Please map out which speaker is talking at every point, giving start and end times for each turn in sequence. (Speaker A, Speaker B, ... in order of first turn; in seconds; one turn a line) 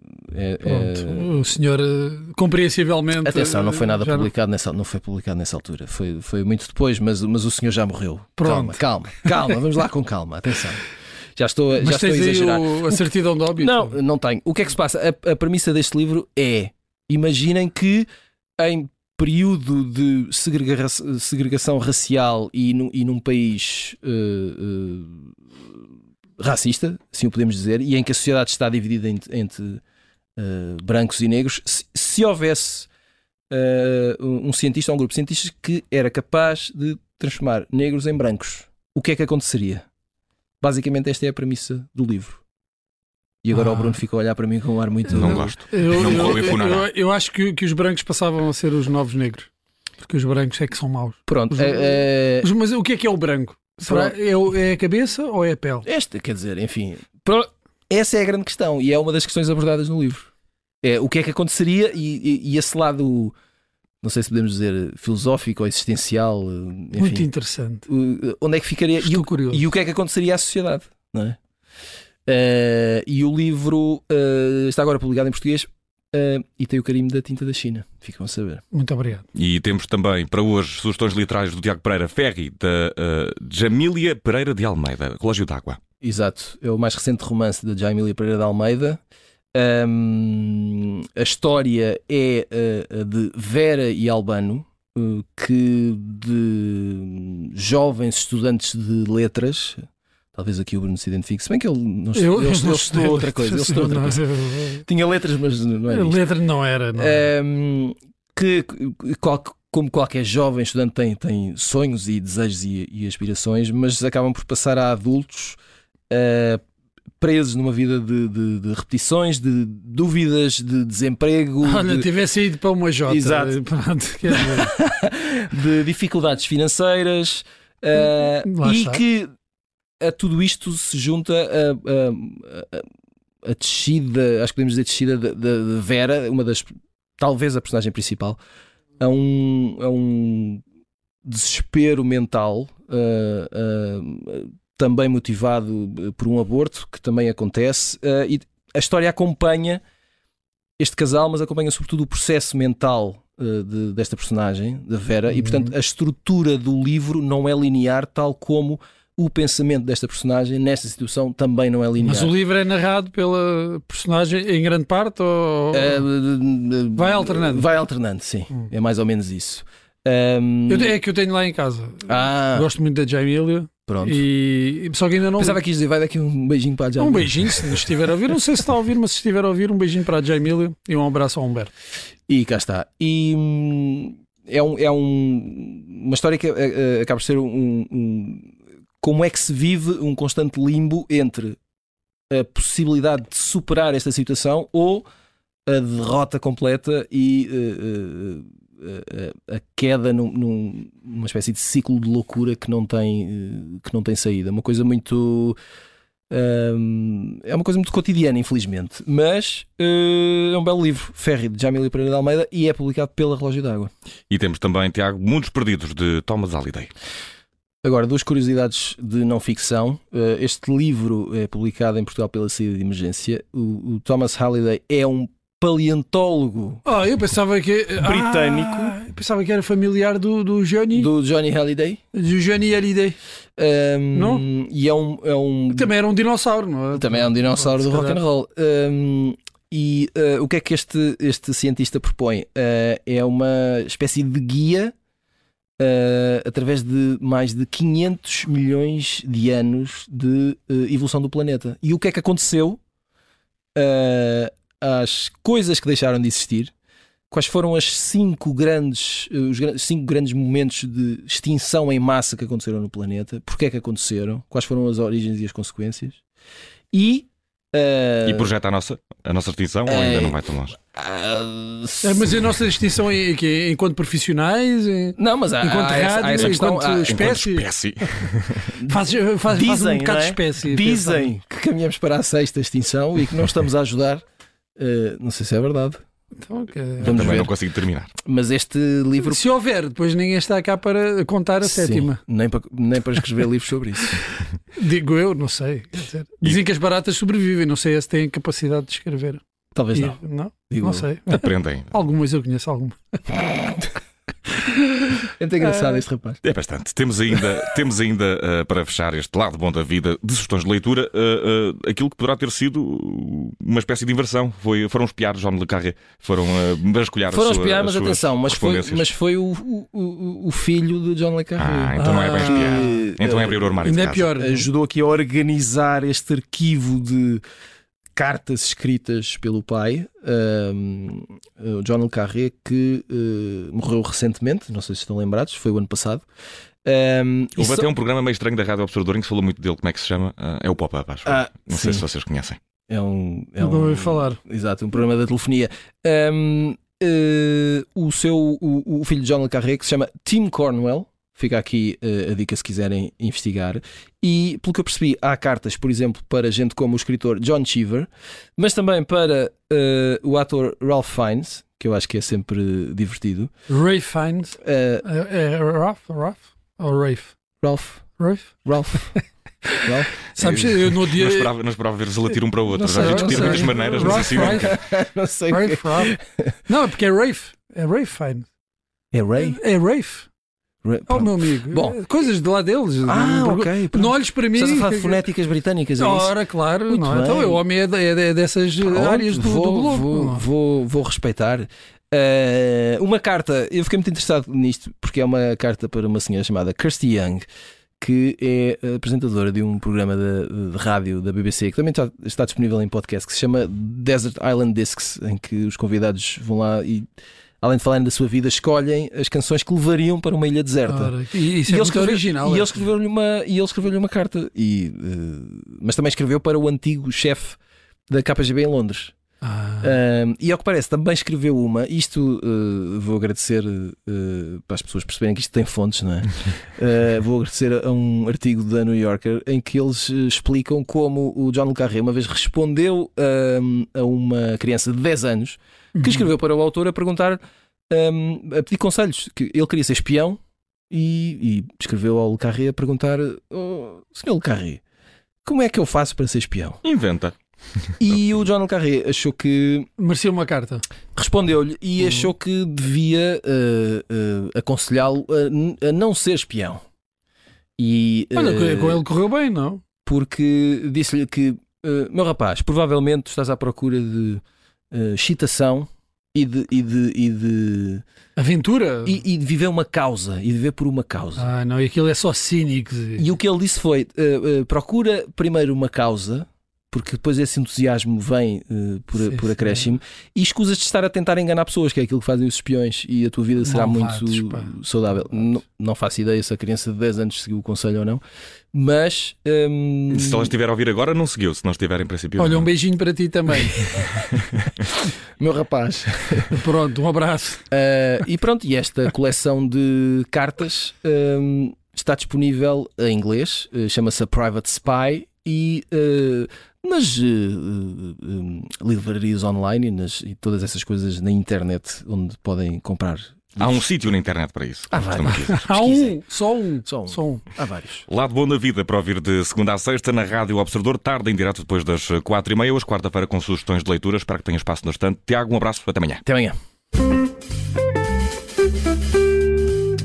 Speaker A: 0.3-1.3
Speaker B: 0.6-4.3
Speaker A: 3.2-10.8
Speaker B: 8.4-8.8
Speaker A: 11.3-13.0
Speaker B: 11.8-13.9
Speaker A: 13.6-18.1
Speaker A: 18.6-25.3
Speaker A: 26.4-29.8
Speaker A: 30.4-32.9
Speaker A: 33.5-39.9
Speaker A: 40.6-42.4
Speaker A: 43.4-46.4
Speaker B: 43.5-44.0
Speaker C: 45.1-46.9
Speaker B: 45.3-49.5
Speaker B: 50.0-55.8
Speaker A: 51.3-52.5
Speaker A: 53.8-54.1
Speaker A: 55.9-60.3
Speaker A: 60.8-63.3
Speaker A: 64.0-67.3
Speaker B: 67.0-67.8
Speaker A: 67.9-71.4
Speaker B: 69.0-69.6
Speaker A: 72.3-78.6
Speaker B: 78.7-79.2
Speaker C: 79.3-85.8
Speaker A: 86.0-89.0
Speaker A: 89.5-99.8
Speaker A: 100.3-104.2
Speaker B: 102.2-104.8
Speaker A: 104.8-106.2
Speaker B: 105.9-107.3
Speaker A: 106.9-115.6
Speaker A: 116.1-116.6
Speaker A: 117.2-122.1
Speaker B: 121.6-124.7
Speaker A: 123.1-123.5
Speaker A: 124.3-129.3
Speaker B: 128.4-129.0
Speaker A: 130.0-132.8
Speaker A: 133.4-138.4
Speaker A: 139.0-140.6
Speaker A: 141.2-149.8
Speaker A: 150.8-162.3
Speaker B: 155.3-155.7
Speaker B: 162.0-166.0
Speaker A: 165.7-170.9
Speaker B: 166.9-167.7
Speaker B: 170.7-175.6
Speaker A: 172.1-172.7
Speaker A: 173.8-174.2
Speaker A: 175.4-177.8
Speaker B: 177.0-181.7
Speaker A: 182.3-191.6
Speaker A: 192.3-195.0
Speaker A: 195.7-205.6
Speaker A: 206.3-213.9
Speaker C: 214.3-216.9
Speaker A: 217.8-226.8
Speaker B: 226.8-231.1
Speaker A: 228.0-228.9
Speaker A: 230.9-232.0
Speaker B: 232.1-233.2
Speaker A: 233.6-235.9
Speaker B: 234.1-234.4
Speaker B: 235.7-238.2
Speaker A: 236.9-244.9
Speaker A: 245.8-252.8
Speaker A: 253.7-256.7
Speaker A: 257.3-266.2
Speaker A: 266.9-268.5
Speaker C: 268.2-270.8
Speaker A: 269.9-272.4
Speaker B: 272.0-277.7
Speaker A: 275.2-277.2
Speaker C: 277.1-278.7
Speaker A: 278.7-284.2
Speaker B: 278.9-281.3
Speaker A: 284.8-286.0
Speaker B: 286.4-287.4
Speaker A: 287.0-287.5
Speaker C: 287.0-288.1
Speaker A: 288.2-289.4
Speaker B: 289.2-292.2
Speaker A: 291.6-294.2
Speaker B: 294.8-299.4
Speaker A: 299.7-300.2
Speaker B: 299.9-303.4
Speaker A: 300.7-301.1
Speaker C: 301.3-301.9
Speaker B: 304.6-305.2
Speaker A: 305.4-306.4
Speaker B: 305.7-306.0
Speaker C: 306.4-319.1
Speaker A: 317.3-327.4
Speaker C: 321.6-324.3
Speaker B: 321.9-323.1
Speaker B: 323.8-324.7
Speaker A: 328.1-336.2
Speaker A: 336.8-337.9
Speaker C: 337.6-342.6
Speaker A: 341.2-342.1
Speaker A: 342.9-363.5
Speaker B: 343.6-344.4
Speaker B: 363.7-367.3
Speaker A: 364.6-365.0
Speaker A: 367.6-368.1
Speaker B: 368.2-369.2
Speaker A: 368.6-369.1
Speaker A: 369.8-370.6
Speaker B: 370.2-371.5
Speaker C: 370.6-374.7
Speaker A: 372.7-376.5
Speaker B: 372.9-374.8
Speaker B: 375.5-376.1
Speaker B: 376.7-378.4
Speaker A: 379.1-379.6
Speaker B: 379.4-380.3
Speaker A: 380.8-382.0
Speaker B: 381.1-385.3
Speaker A: 383.1-386.3
Speaker B: 386.0-390.4
Speaker A: 386.9-387.6
Speaker A: 388.8-397.4
Speaker A: 398.0-407.1
Speaker A: 407.6-417.6
Speaker B: 410.9-412.8
Speaker A: 418.1-419.1
Speaker B: 419.4-419.9
Speaker A: 419.8-444.8
Speaker B: 436.0-436.3
Speaker A: 445.4-446.8
Speaker C: 446.8-447.3
Speaker A: 448.0-449.9
Speaker B: 450.0-450.8
Speaker A: 451.1-456.8
Speaker A: 457.8-459.0
Speaker B: 458.3-459.8
Speaker A: 460.0-468.0
Speaker B: 468.4-469.2
Speaker A: 469.0-471.4
Speaker B: 471.4-473.3
Speaker A: 473.2-488.2
Speaker B: 479.2-479.8
Speaker B: 483.6-484.7
Speaker A: 488.7-490.5
Speaker C: 490.1-492.7
Speaker B: 492.4-494.1
Speaker A: 494.9-496.6
Speaker B: 496.5-497.6
Speaker A: 497.7-513.8
Speaker C: 513.6-515.5
Speaker A: 514.9-516.2
Speaker B: 515.3-517.5
Speaker A: 516.8-518.0
Speaker C: 518.1-526.2
Speaker A: 526.2-526.5